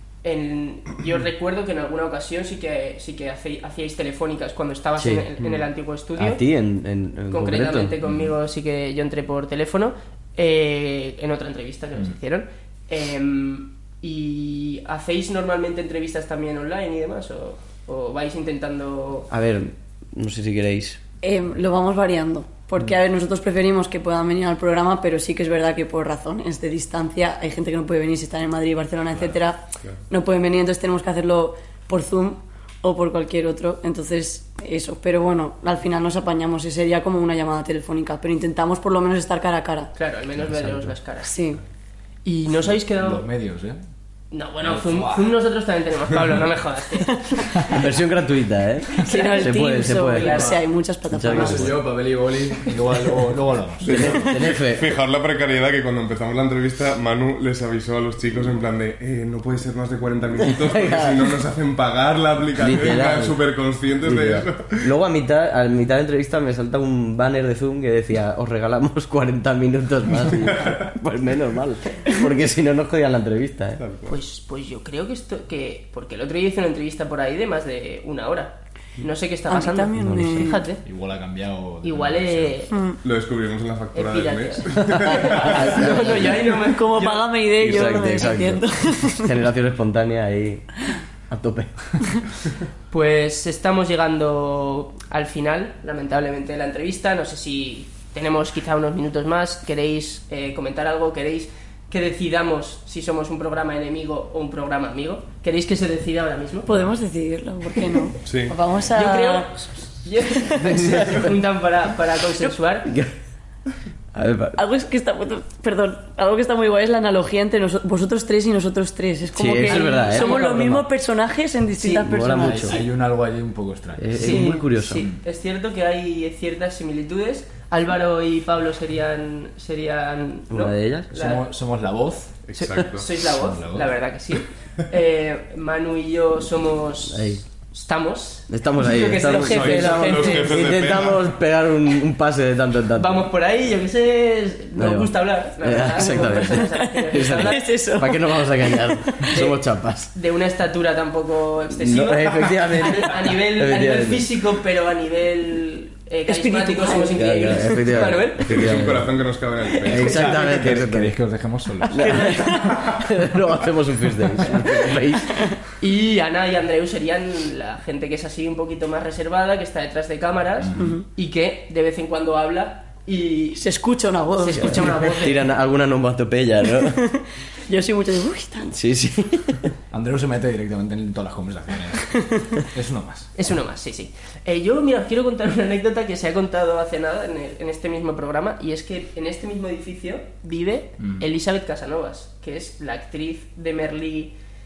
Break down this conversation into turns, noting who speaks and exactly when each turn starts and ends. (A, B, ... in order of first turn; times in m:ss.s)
0:00.2-0:06.4 A
0:05.0-0:05.5 B
0:06.2-0:08.0 B
0:07.3-0:19.3 A
0:08.0-0:08.3 C
0:19.3-0:21.0 B
0:21.2-0:39.9 D
0:39.9-0:41.3 A
0:40.5-0:40.9 B
0:41.2-0:41.6 D
0:42.2-0:43.2 A
0:42.9-0:43.8 C
0:44.3-0:47.2 A
0:44.6-0:45.3 C
0:47.1-0:47.5 D
0:47.7-0:50.4 B
0:49.0-0:51.8 D
0:49.1-0:50.6 A
0:50.3-0:50.6 C
0:51.1-0:51.8 B
0:51.3-0:54.3 C
0:53.9-0:54.9 B
0:53.9-1:04.9 E
1:00.6-1:01.3 B
1:02.6-1:03.4 B
1:04.0-1:13.8 B
1:10.3-1:10.9 E
1:13.8-1:14.2 E
1:14.1-1:20.8 A
1:19.5-1:20.6 D
1:20.0-1:20.4 B
1:20.8-1:22.6 C
1:21.8-1:22.8 A
1:22.7-1:23.0 D
1:23.0-1:25.8 E
1:23.9-1:27.3 A
1:25.0-1:26.5 B
1:26.3-1:29.3 D
1:27.6-1:30.7 B
1:31.3-1:32.0 B
1:32.9-1:46.9 A
1:46.7-1:49.7 D
1:48.2-1:48.6 E
1:48.9-1:52.9 A
1:50.4-1:50.8 D
1:50.7-1:51.2 B
1:52.9-1:53.1 B
1:54.1-1:54.6 B
1:54.6-2:02.7 D
1:59.4-2:00.9 B
1:59.6-2:00.7 A
2:01.8-2:02.8 B
2:02.4-2:04.3 C
2:04.0-2:05.1 B
2:04.2-2:11.5 A
2:04.2-2:05.0 D
2:10.5-2:11.1 B
2:11.1-2:12.4 C
2:12.5-2:13.1 E
2:12.6-2:20.8 A
2:13.3-2:13.9 C
2:17.1-2:17.4 B
2:18.5-2:23.3 B
2:19.3-2:21.3 E
2:23.0-2:27.6 A
2:24.8-2:30.1 B
2:26.1-2:28.9 D
2:29.3-2:29.6 A
2:30.1-2:38.6 A
2:31.7-2:34.3 B
2:36.3-2:38.0 D
2:37.1-2:39.2 B
2:38.4-2:40.5 E
2:39.7-2:40.3 A
2:39.9-2:41.2 B
2:39.9-2:42.5 C
2:42.0-2:45.5 B
2:42.0-2:42.8 D
2:45.8-2:53.6 A
2:50.6-2:51.0 C
2:50.8-2:51.0 D
2:53.6-2:55.0 D
2:54.4-2:55.5 A
2:54.6-2:57.0 B
2:56.8-2:57.1 D
2:57.7-2:58.8 D
2:58.7-2:59.7 B
2:59.9-3:03.3 C
3:02.3-3:02.6 D
3:03.4-3:14.4 A
3:11.0-3:11.2 C